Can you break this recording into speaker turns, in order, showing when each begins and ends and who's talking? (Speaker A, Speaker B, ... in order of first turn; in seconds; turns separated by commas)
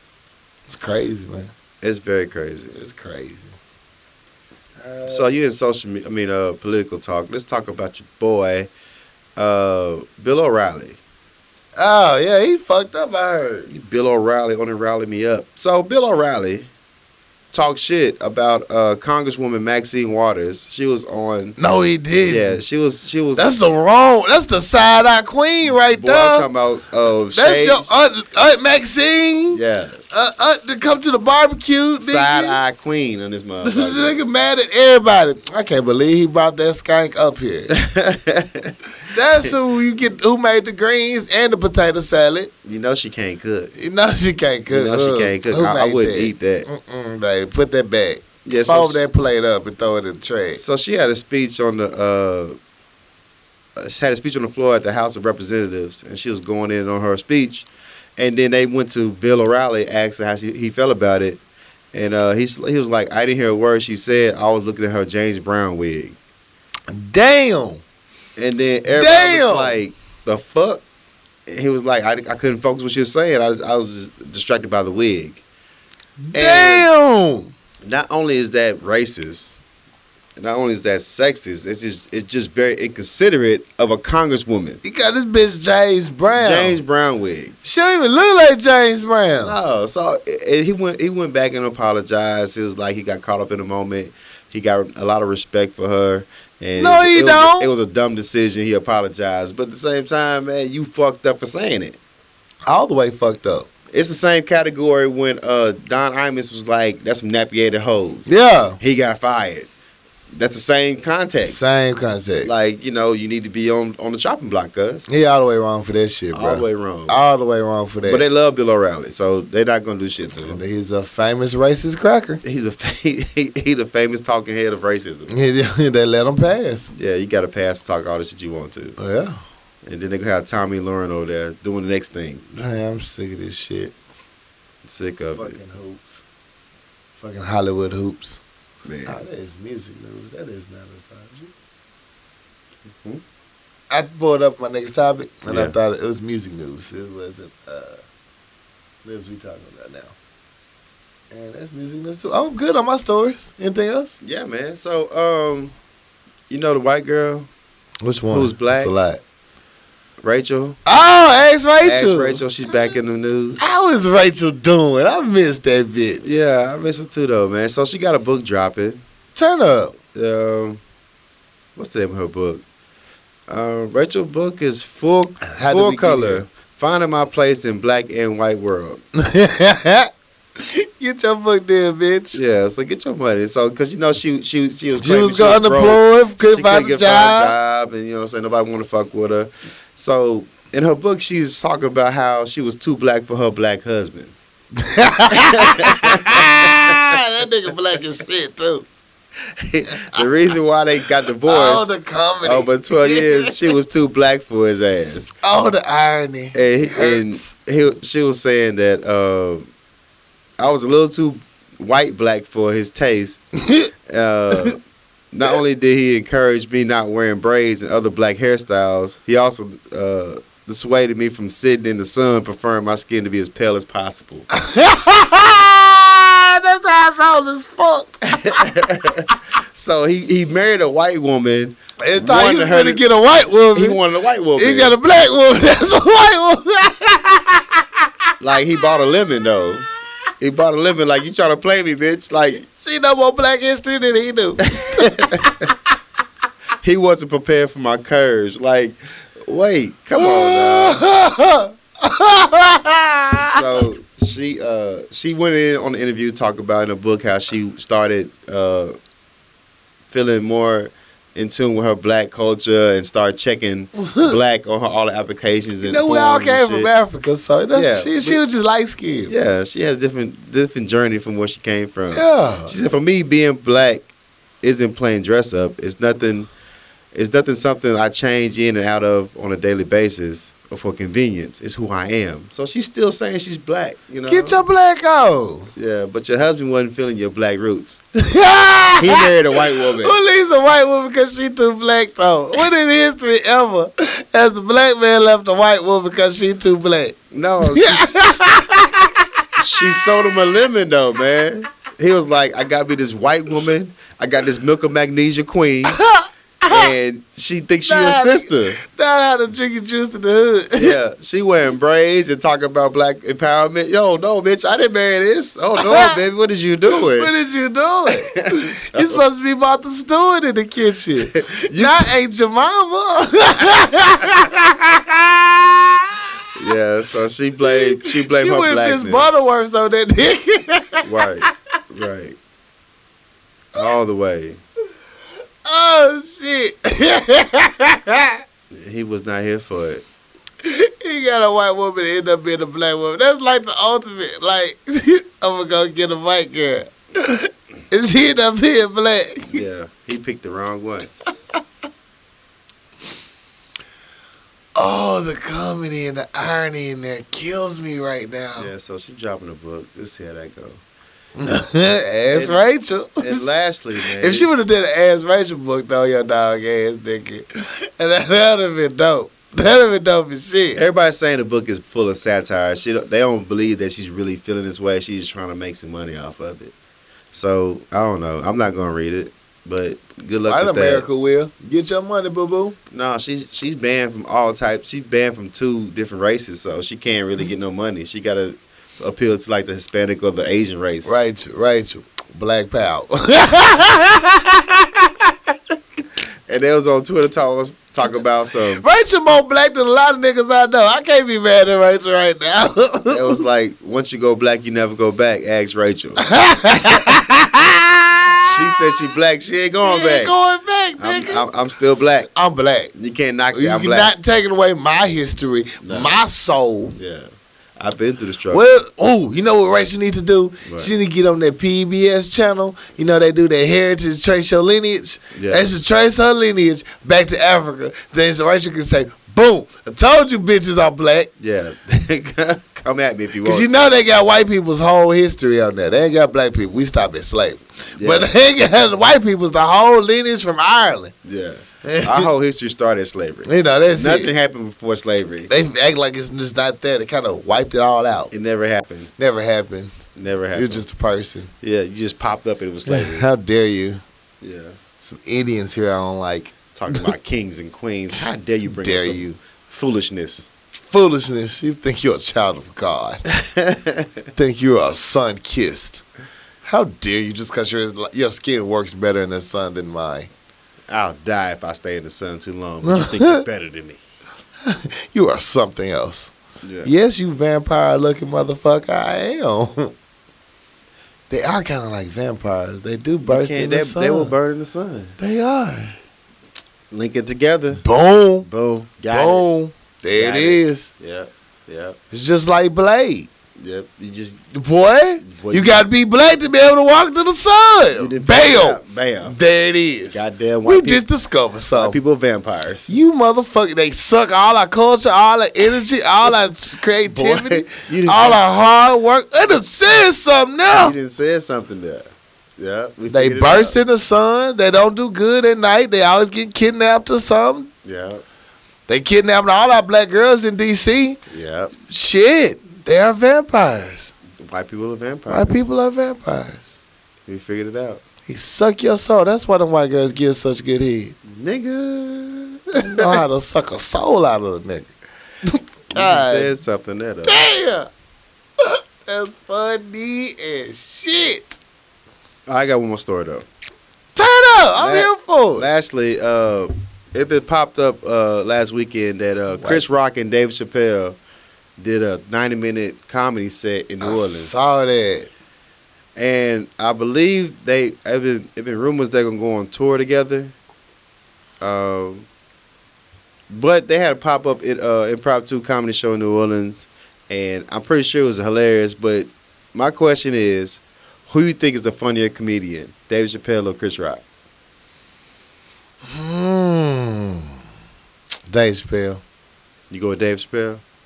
Speaker A: 0.7-1.5, Speaker B: 1.8-2.8, Speaker A: 2.7-3.5, Speaker A: 4.8-5.3, Speaker B: 5.0-8.7, Speaker B: 9.3-11.0, Speaker A: 11.8-13.7, Speaker B: 13.7-16.7, Speaker B: 17.5-21.6, Speaker A: 21.6-22.6, Speaker B: 22.2-23.5, Speaker A: 23.4-26.5, Speaker B: 25.9-27.9, Speaker A: 27.3-32.6, Speaker B: 29.5-30.0, Speaker B: 32.0-34.2, Speaker A: 33.6-37.7, Speaker B: 37.7-38.8, Speaker A: 39.1-42.5, Speaker B: 42.6-43.7, Speaker A: 43.7-50.6, Speaker B: 44.7-46.7, Speaker B: 48.4-49.0, Speaker B: 50.5-52.5, Speaker B: 53.8-61.4, Speaker B: 61.9-66.2, Speaker A: 66.9-67.8, Speaker B: 68.4-70.8, Speaker A: 68.9-69.8, Speaker B: 71.5-75.4, Speaker A: 76.2-77.5, Speaker B: 76.3-76.9, Speaker B: 77.8-79.5, Speaker B: 80.4-84.8, Speaker A: 84.8-86.8, Speaker B: 86.3-87.5, Speaker A: 87.6-89.5, Speaker B: 89.4-102.0, Speaker A: 96.8-97.7, Speaker A: 102.7-103.7, Speaker B: 103.9-108.3, Speaker A: 108.3-108.8, Speaker B: 108.8-109.7, Speaker B: 110.3-111.7, Speaker A: 111.4-112.5, Speaker B: 112.4-115.0, Speaker A: 115.1-118.2, Speaker B: 116.3-117.2, Speaker B: 118.0-120.6, Speaker A: 120.3-122.4, Speaker B: 122.4-125.3, Speaker A: 125.3-126.9, Speaker B: 126.9-129.0, Speaker A: 129.0-129.4, Speaker B: 129.8-132.4, Speaker A: 132.5-133.9, Speaker B: 134.8-135.6, Speaker A: 135.3-136.2, Speaker A: 137.2-138.4, Speaker B: 138.8-139.2, Speaker A: 139.1-141.5, Speaker B: 142.9-143.2, Speaker A: 143.9-148.0, Speaker B: 145.5-145.7, Speaker A: 149.0-150.1, Speaker A: 151.3-154.1, Speaker B: 154.2-155.7, Speaker B: 156.5-157.5, Speaker A: 158.0-159.2, Speaker B: 158.3-158.9, Speaker B: 160.2-160.8, Speaker A: 160.8-162.4, Speaker B: 161.8-163.6, Speaker A: 163.6-166.4, Speaker B: 166.2-169.0, Speaker A: 169.3-169.9, Speaker B: 170.1-170.8, Speaker B: 171.8-172.6, Speaker B: 173.5-179.0, Speaker A: 175.5-176.4, Speaker A: 179.2-182.4, Speaker B: 182.3-194.3, Speaker A: 185.0-187.5, Speaker A: 194.8-198.8, Speaker B: 195.3-197.2, Speaker B: 199.6-205.3, Speaker A: 199.9-200.3, Speaker A: 201.4-203.7, Speaker A: 205.4-207.5, Speaker B: 206.5-209.7, Speaker B: 210.6-213.4, Speaker A: 213.6-213.9, Speaker B: 214.1-214.8, Speaker B: 215.3-224.5, Speaker A: 224.5-228.6, Speaker B: 228.2-233.0, Speaker A: 232.0-234.0, Speaker B: 233.7-234.9, Speaker A: 234.6-238.1, Speaker B: 238.4-239.9, Speaker B: 240.4-242.7, Speaker A: 242.7-245.7, Speaker B: 244.6-245.7, Speaker B: 246.8-251.0, Speaker A: 250.1-253.8, Speaker B: 253.3-258.9, Speaker B: 260.1-266.9, Speaker A: 265.8-269.3, Speaker B: 267.7-268.4, Speaker B: 269.3-274.1, Speaker A: 272.1-272.7, Speaker B: 274.6-276.5, Speaker B: 277.1-284.6, Speaker A: 284.3-285.7, Speaker B: 285.8-288.0, Speaker A: 288.2-299.4, Speaker B: 289.0-290.2, Speaker B: 297.3-298.5, Speaker B: 299.6-306.0, Speaker A: 305.9-306.9, Speaker B: 306.7-308.8, Speaker A: 307.9-311.0, Speaker B: 310.8-317.3, Speaker A: 315.8-316.2, Speaker A: 316.9-326.2, Speaker B: 318.3-319.2, Speaker B: 321.2-322.1, Speaker B: 326.5-329.3, Speaker A: 327.6-331.1, Speaker B: 331.0-332.4, Speaker B: 333.7-334.6, Speaker A: 335.6-338.4, Speaker B: 338.7-340.0, Speaker A: 340.6-349.6, Speaker B: 349.4-351.1, Speaker A: 354.8-358.7, Speaker B: 358.6-360.8, Speaker A: 361.4-363.5, Speaker B: 362.3-362.6, Speaker B: 363.2-364.5, Speaker A: 364.1-370.8, Speaker B: 370.7-376.7, Speaker B: 377.3-381.1, Speaker A: 380.5-382.8, Speaker B: 382.9-391.1, Speaker A: 391.0-395.6, Speaker B: 396.5-398.8, Speaker A: 398.8-403.4, Speaker B: 403.1-406.3, Speaker A: 406.2-408.6, Speaker B: 408.4-410.3, Speaker A: 409.8-411.4, Speaker B: 411.0-412.3, Speaker A: 412.3-412.9, Speaker B: 412.9-414.1, Speaker A: 413.5-416.9, Speaker B: 415.8-416.1, Speaker B: 416.9-418.6, Speaker A: 418.5-431.3, Speaker B: 420.6-420.9, Speaker B: 425.3-425.7, Speaker B: 431.4-434.0, Speaker A: 433.4-441.1, Speaker B: 438.0-438.3, Speaker B: 441.2-445.5, Speaker A: 441.8-442.3, Speaker A: 443.4-444.3, Speaker A: 445.5-448.3, Speaker B: 448.3-449.1, Speaker A: 449.2-450.0, Speaker B: 450.1-450.8, Speaker A: 450.5-451.5, Speaker B: 451.6-453.3, Speaker A: 452.9-454.0, Speaker B: 454.4-454.7, Speaker A: 455.0-457.1, Speaker B: 456.7-460.5, Speaker A: 458.1-459.4, Speaker A: 460.7-463.2, Speaker B: 463.3-464.2, Speaker A: 464.3-466.0, Speaker A: 466.6-470.3, Speaker B: 470.9-474.0, Speaker A: 472.8-473.4, Speaker A: 474.6-476.3, Speaker B: 476.6-476.9, Speaker A: 476.8-479.9, Speaker A: 481.3-484.3, Speaker B: 483.2-485.2, Speaker A: 485.2-485.9, Speaker B: 486.9-487.8, Speaker A: 487.8-488.5, Speaker B: 488.4-489.4, Speaker A: 489.1-490.9, Speaker B: 490.1-492.0, Speaker A: 492.1-493.3, Speaker B: 493.6-494.4, Speaker A: 494.5-502.0, Speaker B: 495.2-495.9, Speaker B: 497.9-499.4, Speaker B: 500.1-501.0, Speaker B: 501.7-502.9, Speaker A: 502.9-510.9, Speaker B: 507.0-508.4, Speaker B: 510.7-513.8, Speaker A: 513.1-517.7, Speaker B: 517.8-518.2, Speaker A: 518.9-521.2, Speaker B: 521.3-521.7, Speaker A: 521.8-524.1, Speaker B: 524.4-525.5, Speaker A: 525.3-526.7, Speaker B: 527.3-528.0, Speaker A: 528.3-531.1, Speaker B: 531.2-533.2, Speaker A: 532.8-534.9, Speaker A: 535.4-536.5, Speaker B: 535.9-537.4, Speaker A: 537.2-537.9, Speaker A: 538.6-541.6, Speaker B: 542.5-543.5, Speaker A: 544.1-545.7, Speaker B: 544.8-551.2, Speaker A: 549.5-549.8, Speaker B: 551.8-554.6, Speaker A: 554.0-555.3, Speaker B: 556.1-560.5, Speaker B: 561.6-562.3, Speaker B: 563.5-574.2, Speaker A: 576.0-577.5, Speaker A: 578.5-579.2, Speaker B: 579.9-580.8